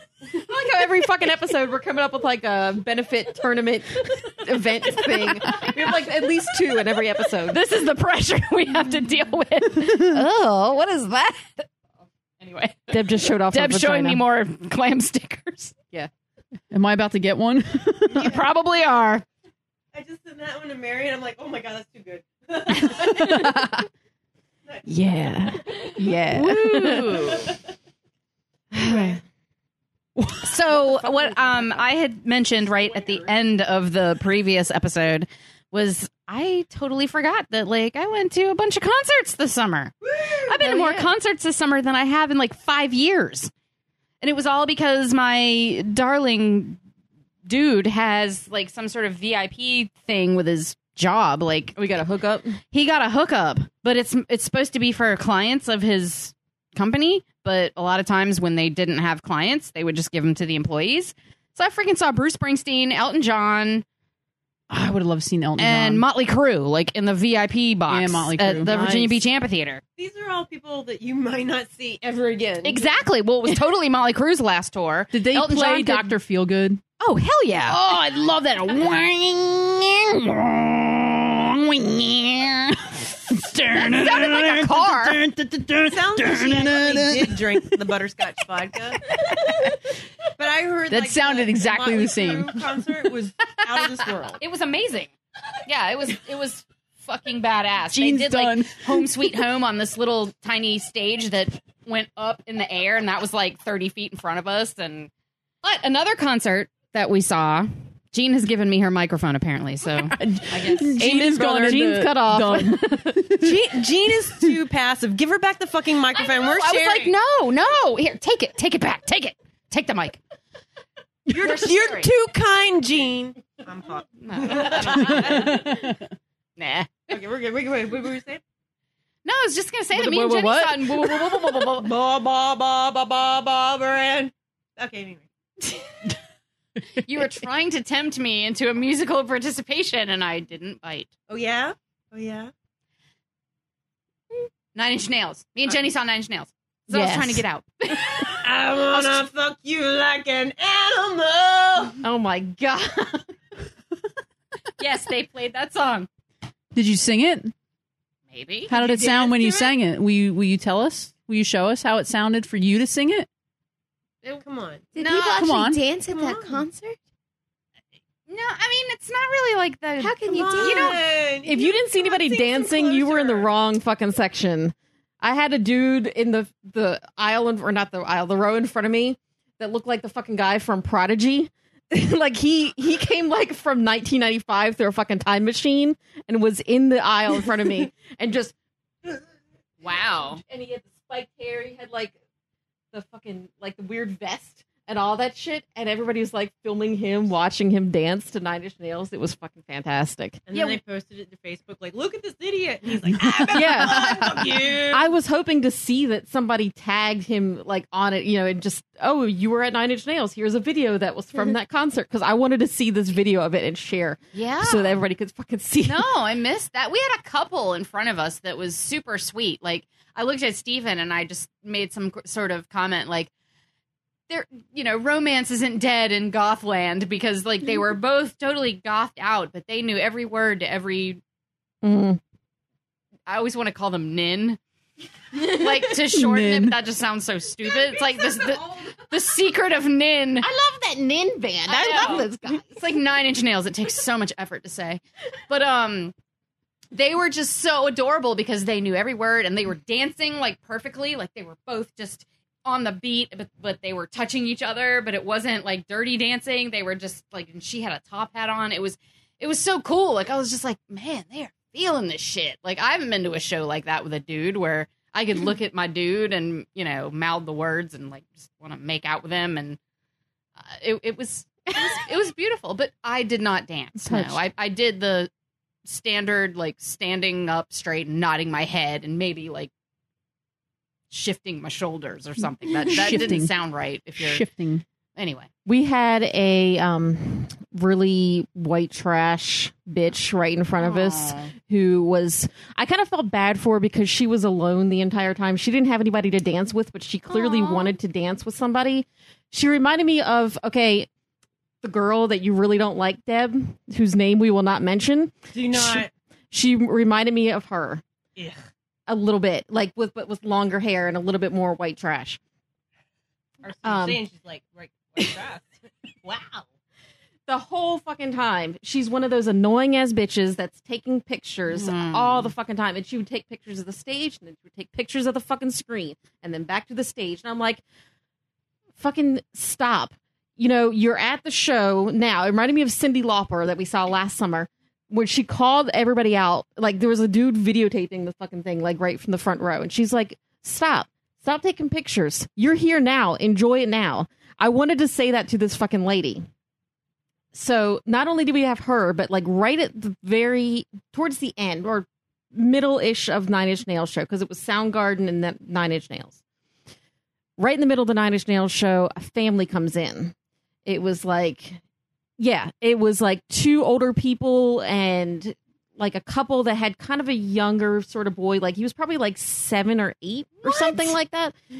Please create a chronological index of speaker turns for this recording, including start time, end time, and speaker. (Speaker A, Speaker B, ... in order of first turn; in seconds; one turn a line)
Speaker A: 0.3-7.6
Speaker B: 7.5-11.7
Speaker C: 9.8-10.2
Speaker B: 12.4-15.7
Speaker A: 12.9-14.2
Speaker C: 16.7-18.4
Speaker B: 18.1-19.2
Speaker D: 19.9-23.6
Speaker A: 23.0-23.6
Speaker C: 23.2-23.6
Speaker D: 24.6-25.5
Speaker A: 24.8-27.2
Speaker C: 26.0-27.1
Speaker B: 26.2-27.5
Speaker A: 28.7-29.2
Speaker D: 28.8-29.2
Speaker C: 30.2-30.5
Speaker B: 30.4-43.5
Speaker A: 30.7-31.4
Speaker D: 32.9-33.2
Speaker D: 40.2-40.4
Speaker A: 40.6-41.1
Speaker B: 44.2-46.8
Speaker B: 47.5-51.8
Speaker A: 51.7-52.6
Speaker B: 52.7-63.8
Speaker C: 64.7-66.0
Speaker B: 65.6-69.8
Speaker C: 67.9-69.2
Speaker D: 70.0-72.9
Speaker B: 72.6-76.1
Speaker C: 75.1-76.8
Speaker B: 77.0-77.8
Speaker C: 77.7-87.8
Speaker B: 83.8-85.2
Speaker D: 85.9-89.0
Speaker C: 89.1-89.7
Speaker D: 90.3-94.4
Speaker C: 90.9-92.7
Speaker B: 94.4-95.1
Speaker B: 95.6-105.1
Speaker C: 97.9-99.0
Speaker B: 105.6-111.0
Speaker C: 110.0-113.7
Speaker A: 111.0-113.4
Speaker D: 113.4-117.1
Speaker B: 116.1-120.2
Speaker D: 121.3-125.7
Speaker B: 121.3-122.1
Speaker B: 124.2-125.8
Speaker C: 124.8-126.1
Speaker B: 126.6-127.1
Speaker D: 127.1-128.4
Speaker B: 129.2-131.9
Speaker C: 129.9-131.2
Speaker D: 131.6-135.2
Speaker B: 136.9-141.1
Speaker D: 141.3-142.5
Speaker B: 144.7-149.2
Speaker A: 146.9-147.4
Speaker D: 148.2-152.0
Speaker A: 152.0-153.3
Speaker B: 154.8-156.1
Speaker C: 156.7-157.5
Speaker B: 158.3-158.7
Speaker C: 158.7-163.3
Speaker D: 158.7-159.7
Speaker D: 164.4-164.9
Speaker E: 164.9-167.0
Speaker B: 164.9-165.5
Speaker C: 165.3-165.8
Speaker D: 166.1-166.6
Speaker B: 168.3-171.0
Speaker E: 170.0-171.0
Speaker D: 170.2-173.5
Speaker A: 171.4-188.5
Speaker B: 189.8-190.4
Speaker A: 190.4-192.2
Speaker A: 192.9-200.8
Speaker D: 200.5-205.1
Speaker C: 203.3-204.6
Speaker A: 203.5-216.1
Speaker B: 214.3-215.0
Speaker B: 215.8-223.3
Speaker B: 224.3-231.2
Speaker A: 231.8-232.2
Speaker B: 233.3-234.6
Speaker B: 235.3-240.5
Speaker C: 236.0-236.8
Speaker A: 237.7-239.0
Speaker A: 240.4-242.8
Speaker B: 241.7-246.1
Speaker B: 246.9-269.8
Speaker B: 270.6-275.3
Speaker C: 274.1-274.4
Speaker B: 275.8-279.7
Speaker B: 281.1-284.4
Speaker C: 282.9-283.5
Speaker C: 284.2-284.8
Speaker B: 285.1-285.5
Speaker A: 285.6-301.1
Speaker B: 290.8-291.5
Speaker B: 297.3-297.9
Speaker A: 301.8-308.0
Speaker D: 305.5-306.1
Speaker A: 309.1-312.4
Speaker D: 313.6-316.6
Speaker A: 313.8-314.2
Speaker A: 317.5-327.8
Speaker B: 321.7-322.5
Speaker A: 329.0-346.4
Speaker A: 347.5-356.4
Speaker A: 357.6-360.3
Speaker A: 360.9-361.8
Speaker A: 362.4-371.6
Speaker B: 370.6-371.1